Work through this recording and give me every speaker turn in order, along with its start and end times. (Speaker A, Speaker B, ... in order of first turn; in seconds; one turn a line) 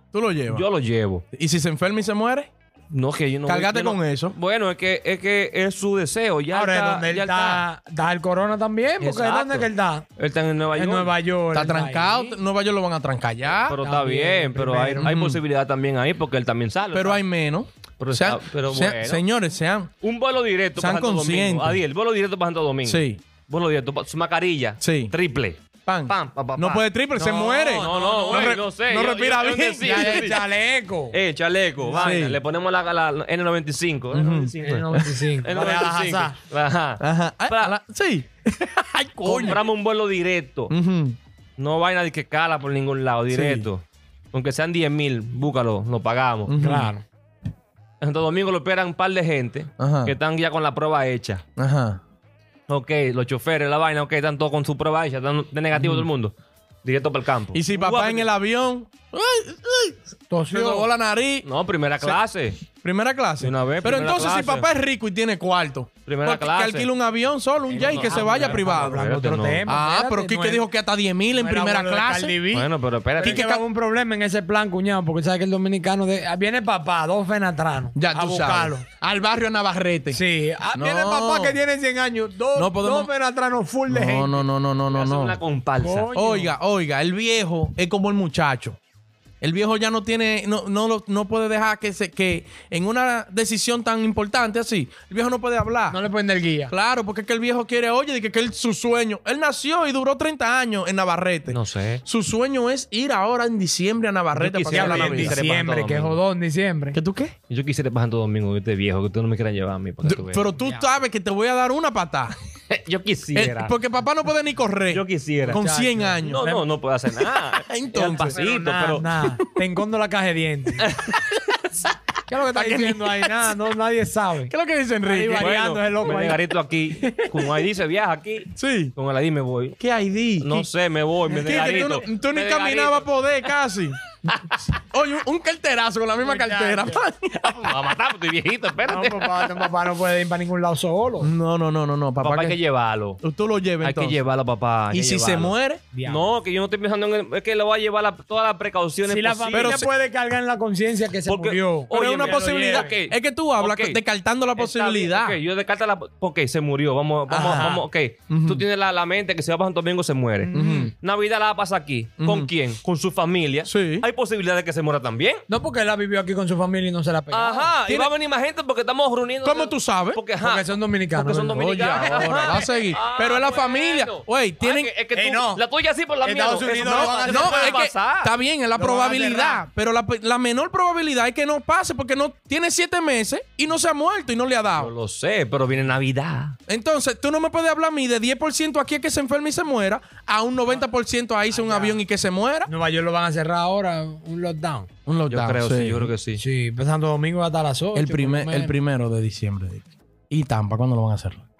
Speaker A: 0.1-0.7
Speaker B: 0.5-1.2
Speaker A: 1.3-2.5
Speaker B: 2.9-7.6
Speaker A: 3.5-4.3
Speaker C: 6.5-10.1
Speaker B: 9.0-11.1
Speaker C: 10.7-12.4
Speaker A: 11.5-13.8
Speaker B: 13.6-17.2
Speaker C: 13.8-15.1
Speaker A: 15.0-15.4
Speaker A: 16.9-19.9
Speaker B: 18.0-19.2
Speaker B: 20.0-26.8
Speaker A: 20.8-21.8
Speaker A: 22.8-23.2
Speaker A: 24.8-25.1
Speaker A: 25.9-30.4
Speaker C: 27.1-28.6
Speaker B: 27.8-30.4
Speaker C: 29.8-31.2
Speaker B: 31.1-37.7
Speaker A: 31.9-32.4
Speaker A: 34.1-35.1
Speaker C: 34.6-36.4
Speaker A: 37.0-39.6
Speaker B: 39.2-40.7
Speaker A: 40.7-41.2
Speaker B: 41.6-46.5
Speaker A: 43.3-43.7
Speaker A: 46.5-46.9
Speaker C: 46.6-47.0
Speaker B: 48.0-51.4
Speaker A: 49.8-50.1
Speaker A: 51.5-52.0
Speaker B: 52.7-56.3
Speaker A: 55.7-56.1
Speaker B: 56.8-58.3
Speaker A: 57.5-60.0
Speaker C: 60.3-60.9
Speaker A: 60.5-61.5
Speaker B: 61.4-62.6
Speaker A: 62.8-69.1
Speaker B: 63.4-64.7
Speaker B: 66.0-66.9
Speaker B: 67.7-69.7
Speaker C: 67.7-70.7
Speaker A: 69.7-72.4
Speaker C: 71.3-78.8
Speaker B: 72.5-73.4
Speaker A: 73.2-73.6
Speaker A: 77.9-80.2
Speaker C: 80.1-84.4
Speaker A: 80.7-81.6
Speaker A: 82.5-83.1
Speaker A: 83.9-85.4
Speaker B: 84.9-86.1
Speaker C: 85.8-86.5
Speaker A: 86.1-88.8
Speaker A: 89.4-96.0
Speaker C: 95.9-96.7
Speaker A: 96.7-105.4
Speaker B: 101.5-102.0
Speaker B: 104.3-106.2
Speaker C: 104.7-107.0
Speaker A: 106.9-107.3
Speaker B: 107.5-110.5
Speaker A: 110.0-112.3
Speaker C: 110.5-110.9
Speaker B: 112.7-113.7
Speaker A: 113.3-116.4
Speaker B: 114.9-115.6
Speaker C: 115.5-116.7
Speaker B: 116.2-119.1
Speaker A: 117.6-118.4
Speaker C: 118.3-120.9
Speaker B: 120.8-121.3
Speaker C: 122.3-126.4
Speaker A: 122.5-123.5
Speaker A: 124.5-125.5
Speaker B: 125.4-129.8
Speaker C: 127.0-127.5
Speaker A: 128.5-128.9
Speaker A: 129.8-130.7
Speaker B: 130.4-133.1
Speaker A: 131.3-134.0
Speaker A: 134.8-137.6
Speaker C: 136.2-137.0
Speaker B: 137.3-139.7
Speaker C: 138.8-141.3
Speaker A: 141.2-142.6
Speaker B: 142.2-143.2
Speaker A: 143.2-144.2
Speaker B: 143.8-149.8
Speaker A: 144.9-145.8
Speaker C: 145.9-146.3
Speaker C: 149.1-153.0
Speaker A: 149.5-149.9
Speaker B: 151.2-154.0
Speaker A: 151.9-155.4
Speaker B: 154.6-165.4
Speaker A: 157.3-158.6
Speaker C: 160.4-160.9
Speaker A: 160.5-160.9
Speaker A: 162.2-162.5
Speaker A: 163.6-164.1
Speaker C: 165.5-168.1
Speaker B: 167.3-178.3
Speaker A: 169.4-170.2
Speaker C: 170.4-172.8
Speaker A: 171.5-174.9
Speaker C: 175.1-175.6
Speaker C: 176.2-177.8
Speaker A: 176.7-184.9
Speaker C: 178.8-179.6
Speaker B: 184.8-186.6
Speaker A: 186.7-192.7
Speaker C: 191.5-192.0
Speaker C: 192.7-194.9
Speaker A: 195.1-196.1
Speaker B: 195.3-196.4
Speaker C: 196.3-198.8
Speaker A: 197.9-201.4